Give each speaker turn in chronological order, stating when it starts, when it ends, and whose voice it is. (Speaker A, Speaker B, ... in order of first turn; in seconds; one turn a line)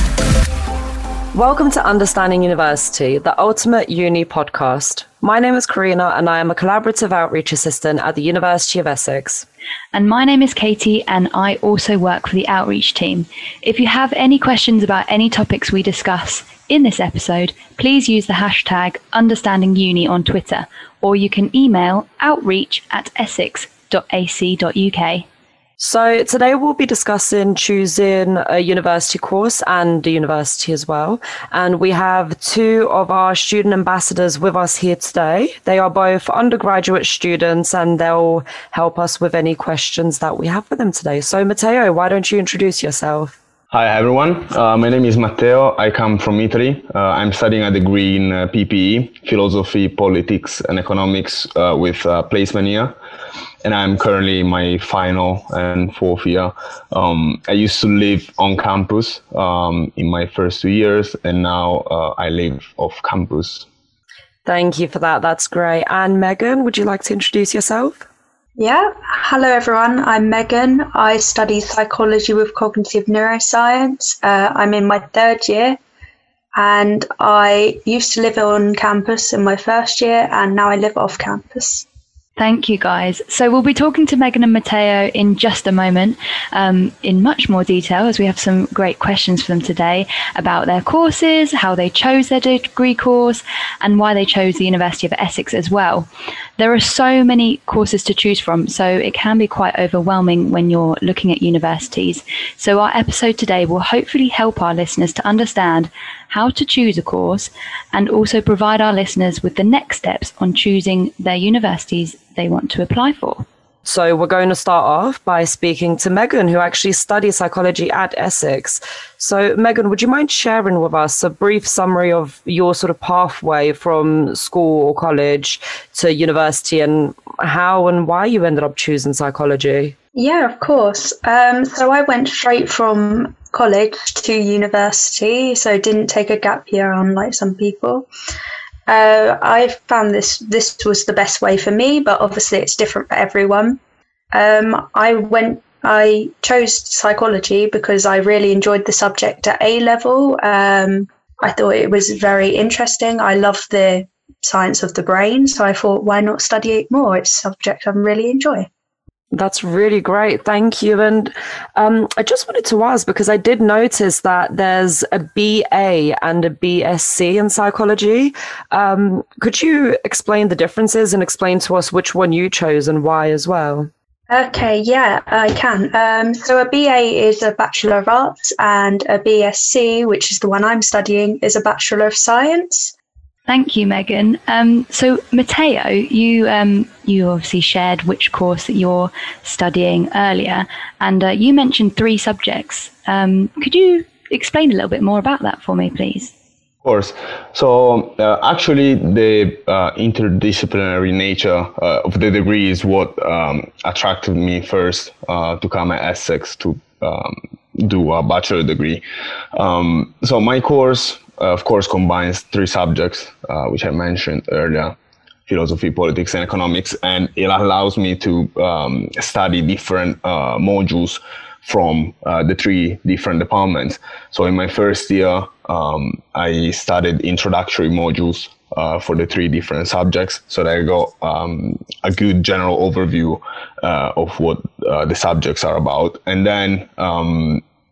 Speaker A: 1.3-9.5
Speaker B: 9.9-25.3
Speaker A: 25.8-43.4
Speaker C: 43.7-53.0
Speaker C: 53.6-63.7
Speaker A: 64.5-68.1
Speaker D: 68.6-75.8
Speaker D: 76.5-81.8
Speaker B: 82.4-113.5
Speaker A: 113.8-129.9
Speaker D: 130.2-138.1
Speaker D: 138.9-143.8
Speaker D: 144.3-158.7
Speaker A: 159.3-173.9
Speaker D: 174.3-182.9
Speaker B: 183.5-196.3
Speaker C: 196.8-209.0
Speaker C: 209.6-215.0
Speaker C: 215.5-237.6